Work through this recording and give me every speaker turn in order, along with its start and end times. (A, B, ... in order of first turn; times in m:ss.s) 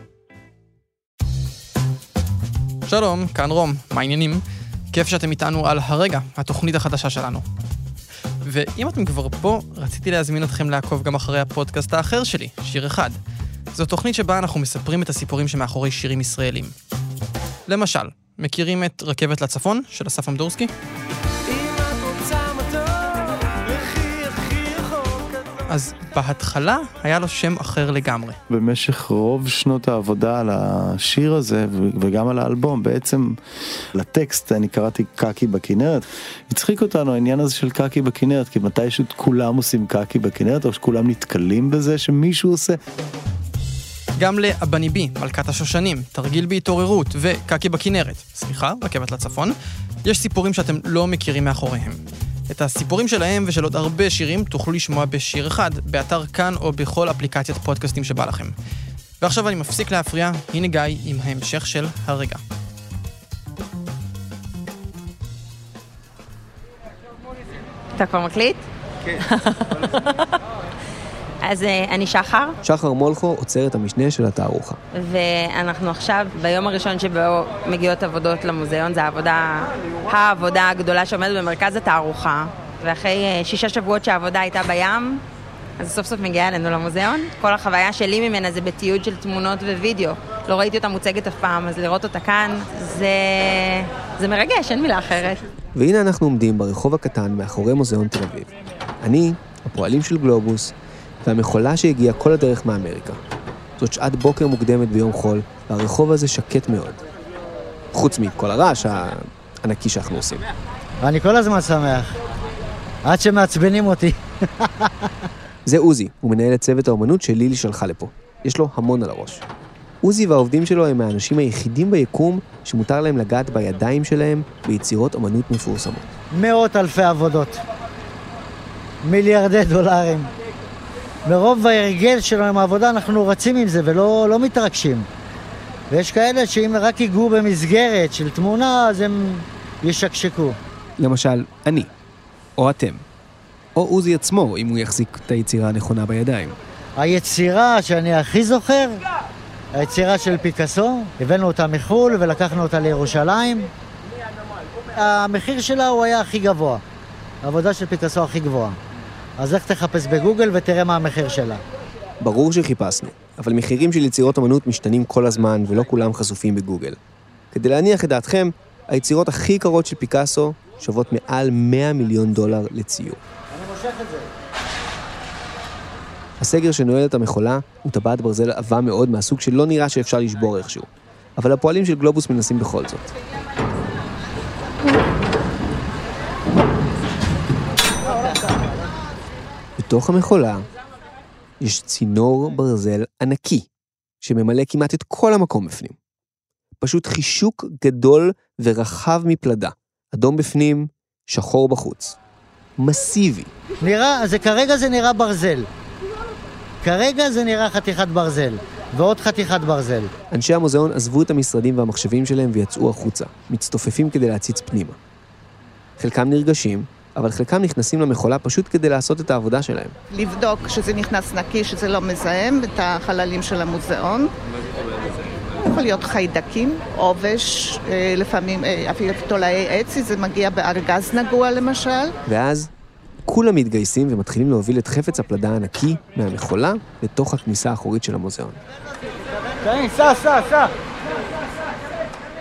0:02.9-0:07.4 A
0:08.4-0:13.2 A
0:13.7-0:16.7 A
0:17.7-0:20.7 A
0:25.7-0:28.4 A
0:28.5-0:33.3 B
0:33.9-0:42.8 B
0:44.2-0:58.5 A
0:59.2-1:02.4 A
1:07.9-1:08.6 C
1:11.4-1:12.6 C
1:12.6-1:14.8 D
1:14.9-1:25.2 C
1:25.8-1:35.4 C
1:35.7-1:43.2 D
1:43.8-1:47.0 D
1:47.9-1:50.4 D
1:51.0-1:52.2 E
1:53.0-1:55.1 E
1:55.6-1:59.4 D
2:00.0-2:06.1 D
2:06.3-2:07.6 E
2:09.0-2:10.3 E
2:11.2-2:15.1 E
2:15.9-2:20.6 E
2:21.0-2:21.9 D
2:22.6-2:23.0 D
2:23.7-2:26.6 D
2:27.0-2:29.0 E
2:29.7-2:33.7 E
2:34.9-2:36.8 E
2:37.4-2:38.8 E
2:39.4-2:41.6 E
2:42.2-2:47.0 D
2:47.5-2:53.2 D
2:53.5-2:54.3 E
2:56.4-3:03.1 D
3:08.1-3:08.6 E
3:09.8-3:10.6 D
3:11.6-3:13.7 D
3:14.2-3:16.0 D
3:16.8-3:22.2 D
3:22.8-3:23.5 D
3:23.8-3:25.7 E
3:26.8-3:30.1 E
3:30.3-3:35.0 D
3:36.0-3:39.9 D
3:40.1-3:44.3 F
3:45.6-3:52.1 F
3:52.3-3:52.7 D
3:53.2-3:58.6 D
3:59.6-4:00.7 E